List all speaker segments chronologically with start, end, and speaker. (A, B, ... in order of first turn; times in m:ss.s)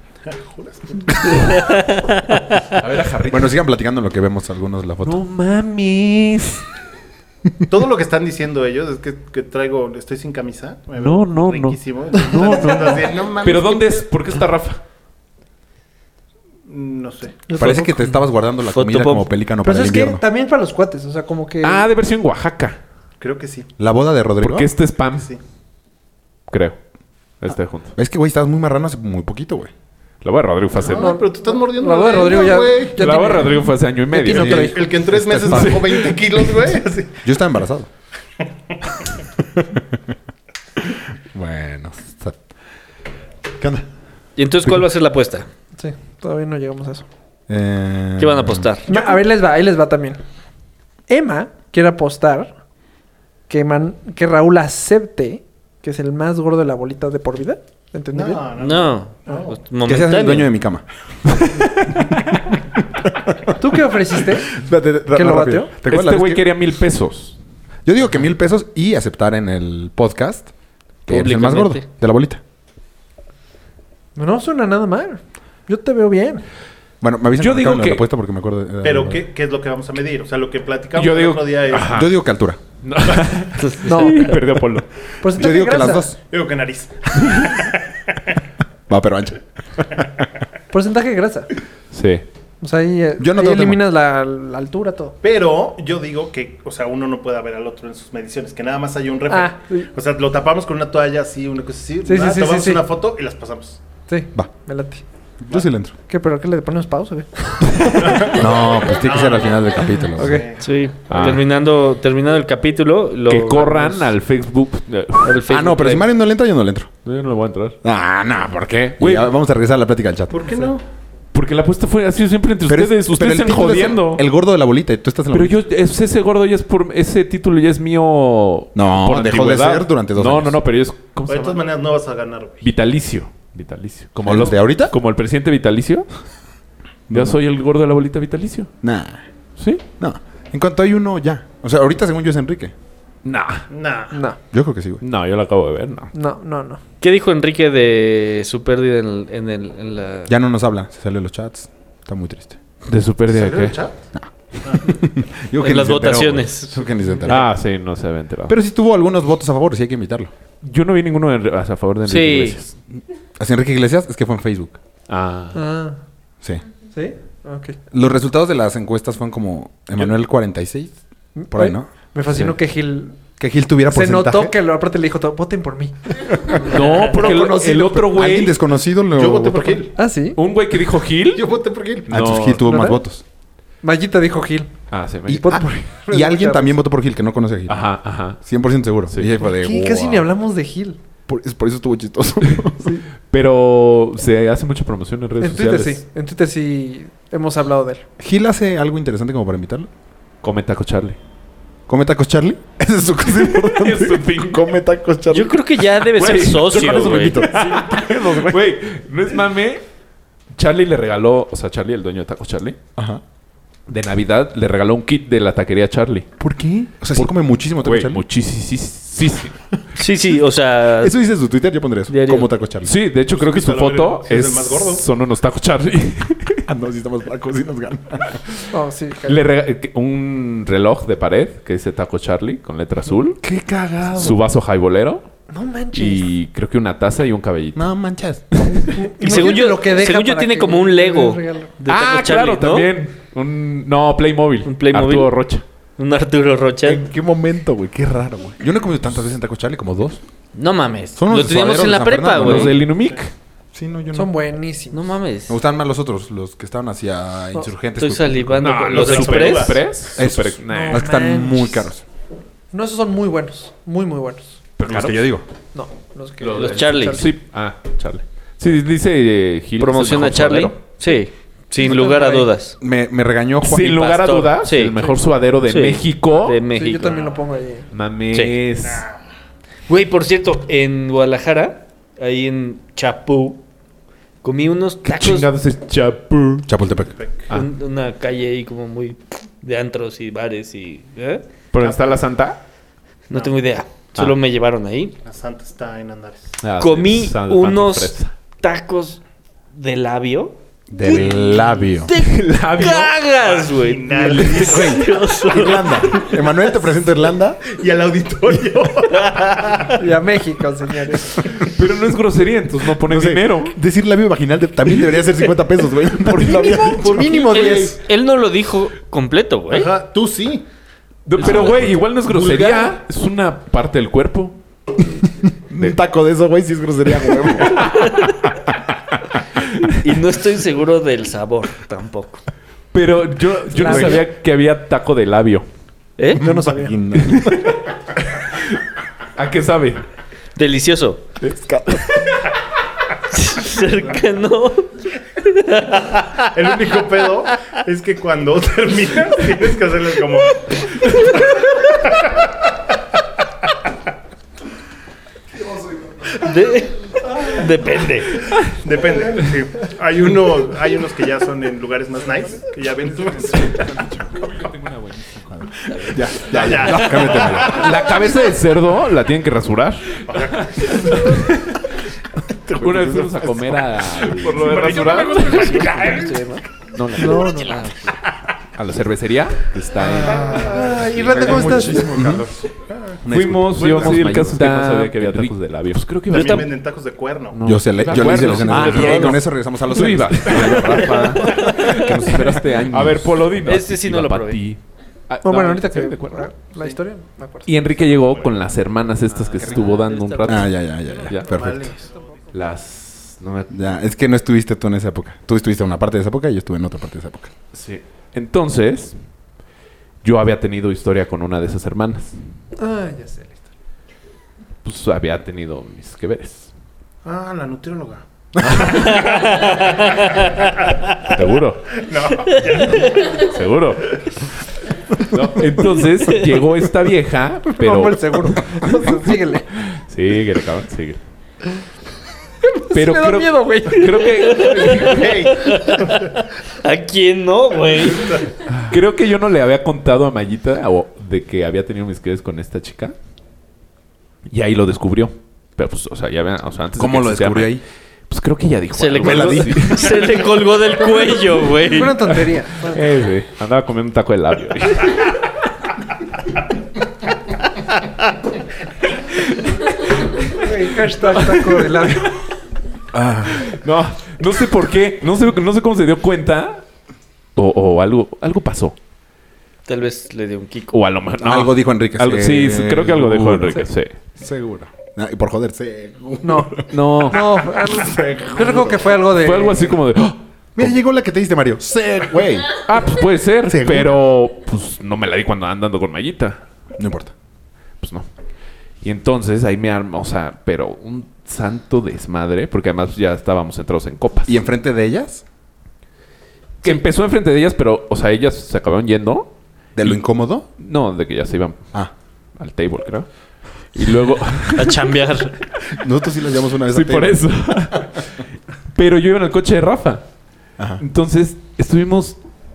0:00.2-0:01.7 A
0:01.6-0:02.6 B
0:02.7-0:03.6 C
0:03.3-0:05.2 D
0:05.0-0:06.7 C
0:07.7-0:14.1 A
0:11.0-0:14.8 C
0:16.7-0:17.4 A
0:17.5-0:18.0 E
0:17.5-0:20.2 D
0:18.6-0:19.3 B
0:19.6-0:21.9 E
0:21.6-0:22.8 C
0:23.2-0:23.7 A
0:23.8-0:24.7 D
0:24.4-0:25.3 C
0:25.1-0:25.4 A
0:26.5-0:26.8 C
0:27.4-0:27.9 C
0:28.0-0:29.7 D
0:30.2-0:31.2 C
0:30.7-0:33.3 A
0:30.9-0:34.8 E
0:33.0-0:34.7 C
0:34.3-0:36.0 D
0:34.3-0:37.2 A
0:35.5-0:36.4 C
0:37.2-0:37.9 D
0:39.5-0:40.0 D
0:40.9-0:42.4 D
0:43.6-0:43.8 D
0:44.4-0:45.5 B
0:45.8-0:47.0 E
0:47.5-0:48.7 D
0:48.2-0:48.9 B
0:48.9-0:50.2 E
0:48.9-0:49.2 A
0:51.1-0:52.5 E
0:53.5-0:58.4 E
0:58.1-0:59.6 A
0:58.6-1:00.5 B
0:59.8-1:00.8 D
1:03.6-1:04.5 E
1:04.3-1:06.5 D
1:05.1-1:05.7 E
1:05.8-1:07.4 C
1:07.8-1:10.5 D
1:11.0-1:12.4 D
1:11.1-1:11.8 B
1:14.1-1:16.4 E
1:17.0-1:19.2 D
1:17.4-1:18.1 C
1:18.8-1:22.0 A
1:20.9-1:22.1 C
1:21.8-1:22.6 D
1:22.8-1:24.9 C
1:23.6-1:24.4 B
1:23.8-1:24.3 E
1:25.2-1:26.1 E
1:25.2-1:26.1 D
1:26.3-1:28.2 A
1:28.9-1:30.0 D
1:30.7-1:31.5 E
1:31.9-1:32.2 C
1:32.6-1:35.2 E
1:33.2-1:33.8 D
1:35.2-1:43.8 A
1:39.3-1:39.9 E
1:42.0-1:42.8 E
1:44.1-1:45.0 E
1:45.4-1:45.9 D
1:46.1-1:48.2 E
1:48.0-1:50.6 A
1:48.3-1:50.4 D
1:50.2-1:50.5 E
1:50.6-1:54.1 B
1:51.1-1:51.4 C
1:53.3-1:55.4 C
1:55.2-1:56.1 B
1:55.5-1:56.9 D
1:57.0-1:57.8 C
1:57.8-2:00.7 D
1:59.0-1:59.3 C
2:00.3-2:00.8 A
2:01.3-2:04.2 C
2:02.6-2:05.6 D
2:05.3-2:11.6 C
2:08.7-2:10.6 D
2:11.3-2:12.7 A
2:12.6-2:16.1 C
2:14.2-2:14.9 D
2:17.1-2:17.4 D
2:17.1-2:18.7 C
2:18.8-2:19.2 D
2:19.6-2:19.8 C
2:20.0-2:22.7 D
2:23.2-2:23.7 C
2:23.7-2:24.2 A
2:24.1-2:24.4 E
2:24.5-2:25.0 D
2:25.0-2:26.1 C
2:26.1-2:26.8 E
2:27.0-2:30.3 B
2:30.3-2:32.6 D
2:32.9-2:33.8 C
2:33.3-2:34.0 A
2:34.2-2:37.5 D
2:34.6-2:34.9 A
2:35.6-2:36.8 B
2:37.3-2:38.6 C
2:38.5-2:40.3 D
2:40.6-2:42.7 C
2:42.0-2:42.6 B
2:43.4-2:44.8 D
2:45.1-2:45.6 C
2:45.5-2:46.0 E
2:46.9-2:47.8 E
2:47.9-2:51.0 D
2:51.3-2:53.2 E
2:51.5-2:51.9 D
2:52.3-2:52.6 C
2:53.4-2:54.5 D
2:53.9-2:58.0 E
2:56.6-2:58.6 C
2:57.2-2:59.8 D
2:59.1-3:00.0 A
3:00.0-3:00.4 E
3:00.4-3:01.5 C
3:01.3-3:02.1 A
3:02.1-3:02.7 C
3:02.1-3:03.2 D
3:02.6-3:03.0 E
3:03.8-3:04.7 E
3:04.9-3:05.6 C
3:05.3-3:10.3 D
3:05.3-3:06.8 E
3:07.7-3:08.4 C
3:09.4-3:11.0 E
3:11.3-3:13.0 D
3:13.2-3:16.0 C
3:15.4-3:18.0 E
3:18.2-3:19.9 D
3:20.4-3:21.2 C
3:21.9-3:25.6 D
3:23.2-3:24.7 C
3:25.3-3:27.4 B
3:26.1-3:29.8 C
3:26.2-3:28.7 D
3:30.5-3:32.8 C
3:33.0-3:33.2 D
3:33.9-3:36.3 C
3:36.4-3:38.2 D
3:37.1-3:39.6 C
3:40.0-3:41.2 B
3:41.0-3:42.9 D
3:42.1-3:42.5 B
3:42.8-3:46.6 C
3:43.3-3:45.0 A
3:46.7-3:48.4 D
3:48.7-3:49.4 E
3:49.2-3:53.4 C
3:53.4-3:54.4 D
3:54.1-3:55.2 C
3:55.5-3:56.3 E
3:55.9-3:57.9 C
3:57.7-3:58.5 D
3:58.6-3:58.9 C
3:58.8-4:01.7 E
3:59.2-4:02.9 B
4:01.9-4:05.6 C
4:04.6-4:05.3 B
4:06.0-4:07.0 B
4:06.8-4:10.2 D
4:10.5-4:12.7 B
4:11.2-4:12.8 D
4:12.3-4:13.3 C
4:13.7-4:14.3 D
4:14.1-4:15.1 E
4:14.9-4:15.6 B
4:15.5-4:18.6 D
4:18.0-4:19.8 B
4:18.6-4:21.0 C
4:18.9-4:19.8 A
4:20.1-4:22.0 D
4:20.6-4:21.9 E
4:22.7-4:24.6 E
4:24.8-4:25.3 C
4:24.8-4:25.4 D
4:25.7-4:27.3 E
4:26.4-4:30.8 C
4:26.5-4:27.3 B
4:29.8-4:32.8 B
4:31.8-4:32.5 E
4:32.8-4:34.0 D
4:33.6-4:36.6 C
4:33.8-4:34.9 B
4:35.6-4:37.2 B
4:36.7-4:37.9 E
4:37.9-4:39.0 C
4:38.8-4:39.2 A
4:39.9-4:43.6 B
4:44.4-4:45.5 B
4:45.0-4:46.7 C
4:46.7-4:47.1 D
4:47.1-4:47.5 A
4:47.5-4:51.4 B
4:51.7-4:52.6 C
4:51.8-4:52.2 A
4:53.3-4:55.1 B
4:53.3-4:53.6 A
4:55.2-4:56.6 A
4:56.6-4:58.3 C
4:56.8-4:59.2 B
4:59.7-5:06.2 B
5:00.9-5:02.1 D
5:01.0-5:01.9 A
5:02.2-5:03.1 C
5:03.4-5:05.2 A
5:04.4-5:07.6 D
5:07.6-5:10.0 A
5:09.2-5:09.9 B
5:10.0-5:11.4 E
5:11.6-5:13.8 C
5:13.0-5:17.8 D
5:16.8-5:17.9 A
5:17.0-5:17.9 E
5:17.2-5:19.9 B
5:19.7-5:20.6 A
5:21.2-5:24.6 C
5:21.4-5:21.9 B
5:25.4-5:28.1 D
5:27.7-5:28.0 C
5:27.9-5:28.4 B
5:30.0-5:32.4 B
5:32.9-5:35.6 C
5:33.7-5:34.2 E
5:36.2-5:36.4 B
5:36.4-5:37.0 E
5:36.4-5:37.7 D
5:37.2-5:38.8 C
5:39.4-5:40.0 C
5:40.6-5:41.2 B
5:41.4-5:42.2 D
5:43.3-5:46.5 B
5:46.5-5:52.4 A
5:55.6-5:56.1 D
5:56.4-5:58.3 B
5:58.8-6:04.0 A
6:03.2-6:04.4 D
6:03.8-6:11.8 C
6:05.5-6:08.0 D
6:06.5-6:08.2 A
6:10.3-6:11.3 A
6:12.7-6:13.7 D
6:12.8-6:16.2 C
6:14.4-6:16.6 A
6:15.3-6:16.6 B
6:16.9-6:17.9 C
6:17.2-6:17.8 E
6:17.6-6:17.9 B
6:18.7-6:20.7 C
6:20.0-6:22.6 D
6:20.0-6:23.2 A
6:21.0-6:22.1 E
6:23.2-6:25.5 D
6:23.3-6:26.8 C
6:23.8-6:24.3 A
6:26.3-6:27.6 A
6:26.3-6:26.6 B
6:27.5-6:36.5 C
6:27.6-6:33.5 D
6:28.7-6:29.3 B
6:33.6-6:34.6 B
6:35.4-6:37.9 E
6:37.6-6:41.8 C
6:38.2-6:38.7 A
6:39.3-6:40.7 B
6:40.4-6:41.9 D
6:41.4-6:42.4 A
6:42.5-6:43.8 C
6:43.7-6:47.5 D
6:47.7-6:49.2 C
6:50.2-6:52.4 C
6:52.8-6:53.6 E
6:54.8-6:56.7 C
6:57.2-7:01.0 A
6:58.6-6:58.9 D
6:58.9-7:00.6 B
7:01.3-7:02.0 C
7:02.0-7:03.4 A
7:03.3-7:04.2 C
7:05.3-7:08.9 C
7:07.7-7:09.7 E
7:09.8-7:11.2 C
7:12.7-7:14.5 E
7:12.9-7:15.3 C
7:14.2-7:18.4 B
7:14.5-7:16.3 A
7:18.0-7:18.5 A
7:18.7-7:23.1 C
7:24.5-7:30.3 C
7:26.9-7:27.8 D
7:28.9-7:32.2 B
7:29.2-7:30.1 D
7:31.8-7:33.1 E
7:32.3-7:35.5 C
7:39.4-7:40.6 C
7:40.5-7:42.3 E
7:41.2-7:42.3 C
7:43.1-7:43.7 D
7:43.4-7:46.8 C
7:47.6-7:49.0 C
7:49.9-7:51.0 B
7:50.9-7:54.1 C
7:51.4-7:57.4 D
7:56.4-8:00.0 E
7:56.8-7:57.6 C
7:57.9-7:59.0 D
7:59.2-8:00.9 C
8:00.8-8:02.8 D
8:02.8-8:06.6 C
8:03.6-8:04.1 D
8:07.0-8:07.3 D
8:08.0-8:08.3 C
8:09.0-8:14.6 C
8:14.4-8:15.4 D
8:16.8-8:19.5 C
8:20.0-8:20.6 D
8:20.8-8:21.9 C
8:22.6-8:23.3 C
8:23.9-8:25.1 C
8:24.7-8:25.5 B
8:25.9-8:28.0 D
8:26.9-8:28.4 C
8:28.9-8:30.2 C
8:31.0-8:32.4 C